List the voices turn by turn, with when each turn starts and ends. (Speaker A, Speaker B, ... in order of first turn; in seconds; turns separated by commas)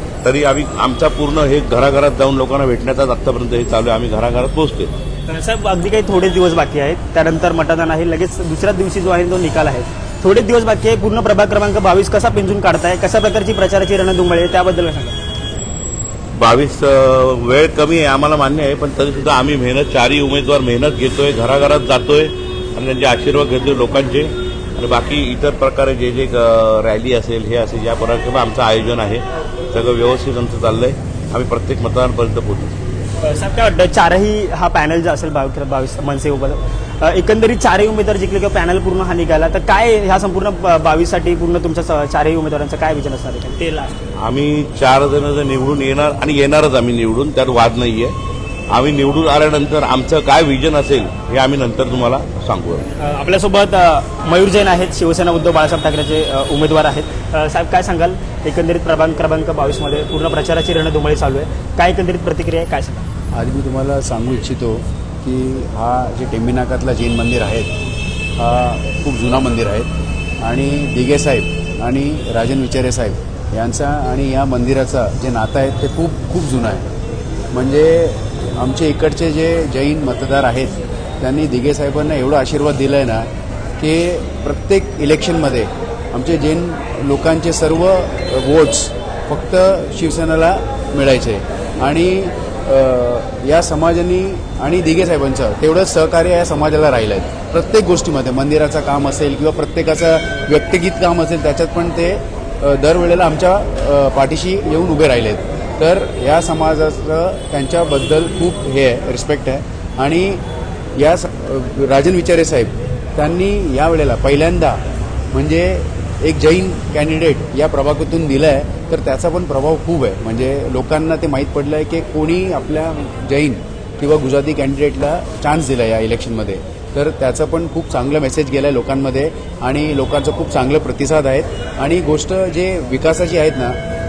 Speaker A: 0.2-4.9, Speaker B: 5.3-15.2, Speaker A: 16.4-32.8, Speaker B: 33.2-44.0, Speaker A: 44.2-48.1, Speaker A: 48.7-52.9, Speaker B: 53.0-63.0, Speaker C: 63.3-67.7, Speaker C: 68.4-69.9, Speaker C: 70.4-76.8, Speaker C: 77.5-83.3, Speaker C: 83.8-110.4, Speaker C: 111.0-114.8, Speaker C: 115.3-133.8